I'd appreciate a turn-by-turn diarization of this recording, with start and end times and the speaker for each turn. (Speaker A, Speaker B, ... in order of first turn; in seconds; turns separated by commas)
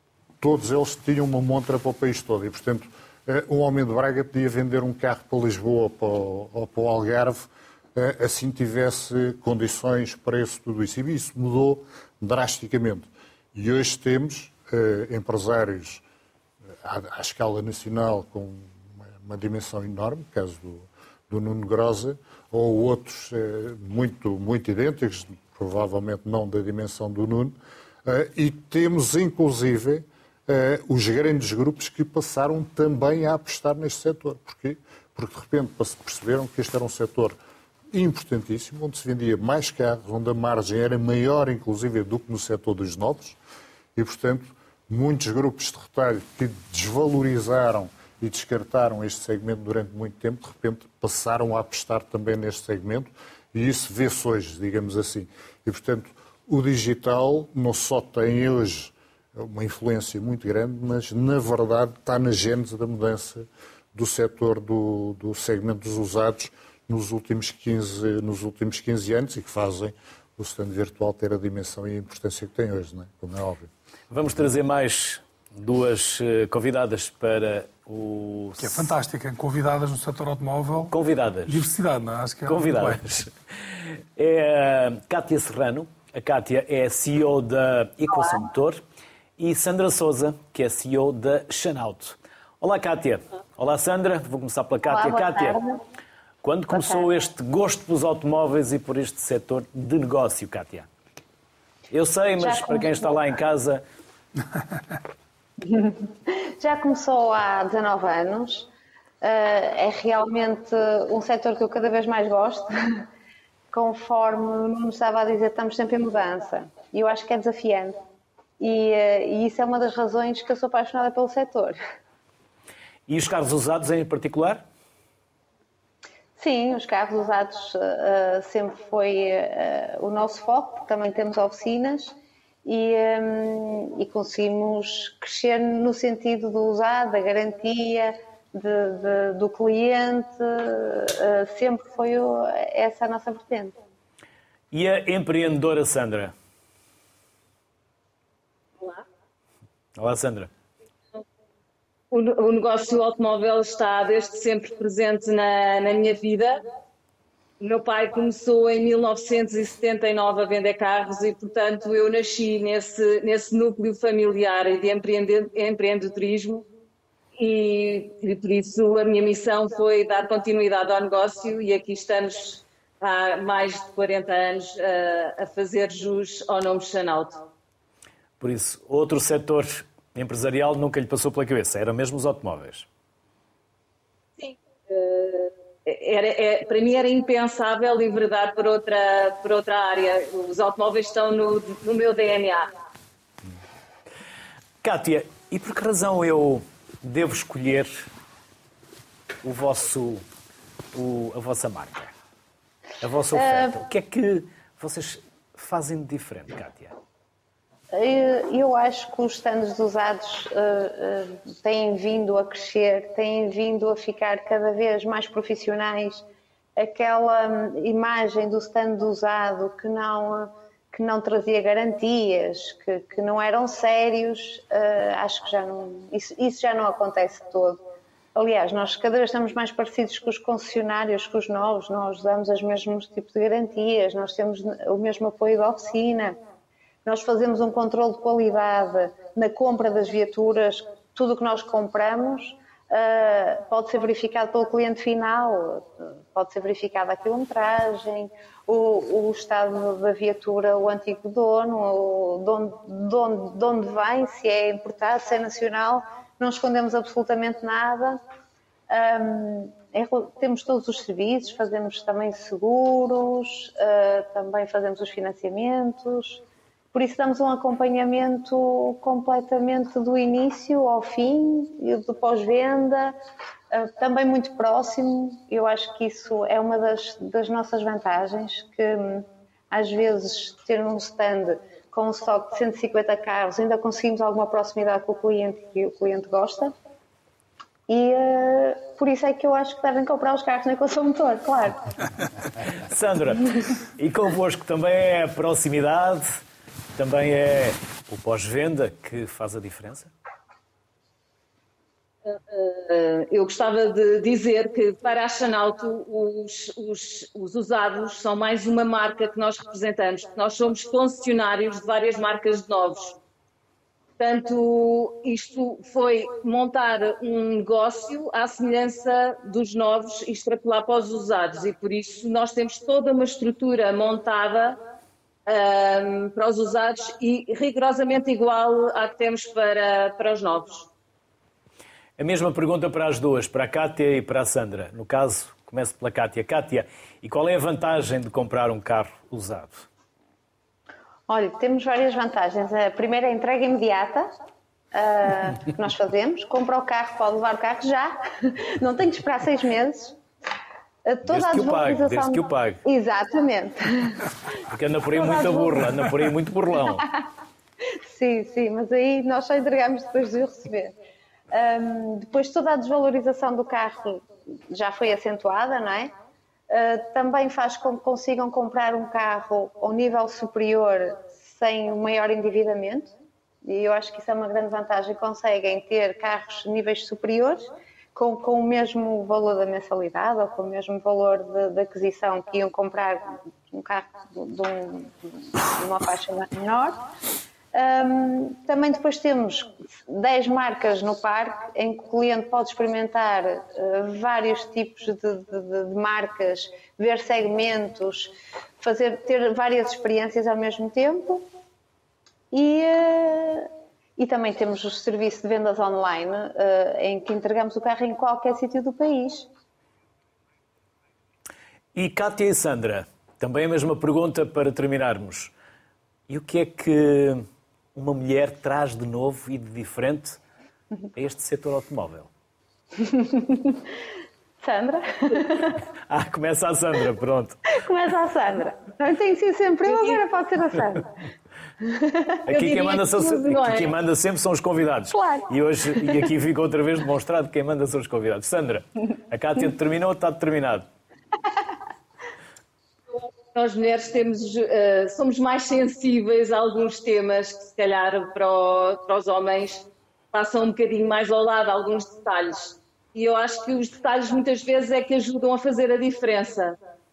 Speaker A: 0.4-16.0, Speaker A: 16.8-37.4, Speaker A: 37.9-43.4, Speaker A: 44.0-73.7, Speaker B: 74.1-78.9, Speaker C: 78.6-83.0, Speaker B: 80.9-81.6, Speaker B: 82.5-88.8, Speaker B: 89.4-95.6, Speaker D: 94.9-95.8, Speaker B: 96.4-100.9, Speaker D: 96.7-97.1, Speaker B: 101.9-103.8, Speaker D: 102.4-103.3, Speaker D: 105.6-108.7, Speaker D: 109.2-113.0, Speaker D: 113.7-118.0, Speaker D: 118.6-121.8, Speaker B: 123.1-124.6, Speaker D: 126.4-143.8, Speaker B: 144.7-146.3, Speaker B: 150.0-150.5, Speaker E: 152.1-156.6, Speaker E: 157.6-166.7, Speaker E: 167.4-177.4, Speaker B: 178.4-182.9, Speaker E: 184.4-192.7, Speaker B: 194.8-198.1, Speaker B: 199.4-200.2, Speaker B: 200.9-202.1, Speaker B: 203.0-206.9, Speaker D: 203.3-203.8, Speaker D: 207.9-216.2, Speaker D: 216.8-227.8, Speaker D: 228.3-236.4, Speaker D: 237.1-258.2, Speaker D: 258.9-266.4, Speaker D: 266.9-273.2, Speaker D: 273.7-286.7, Speaker D: 287.9-291.9, Speaker B: 292.8-296.4, Speaker B: 296.9-300.1, Speaker E: 302.3-313.2, Speaker E: 314.2-324.8, Speaker E: 325.5-330.9, Speaker B: 332.2-339.9, Speaker D: 341.3-344.3, Speaker D: 344.9-350.2, Speaker D: 351.1-354.3, Speaker B: 351.3-352.8, Speaker B: 354.7-357.1, Speaker D: 355.1-356.1, Speaker D: 358.1-360.9, Speaker D: 361.5-366.1, Speaker D: 366.7-373.1, Speaker D: 373.6-387.1, Speaker D: 387.7-401.5, Speaker D: 402.5-409.5, Speaker B: 411.9-415.5, Speaker B: 416.3-420.4, Speaker B: 421.1-422.3, Speaker D: 423.0-423.9, Speaker D: 424.6-425.8, Speaker B: 426.1-427.6, Speaker D: 427.7-431.1, Speaker D: 431.8-432.4, Speaker E: 432.5-433.9, Speaker B: 432.5-440.9, Speaker D: 435.1-435.5, Speaker E: 443.5-456.8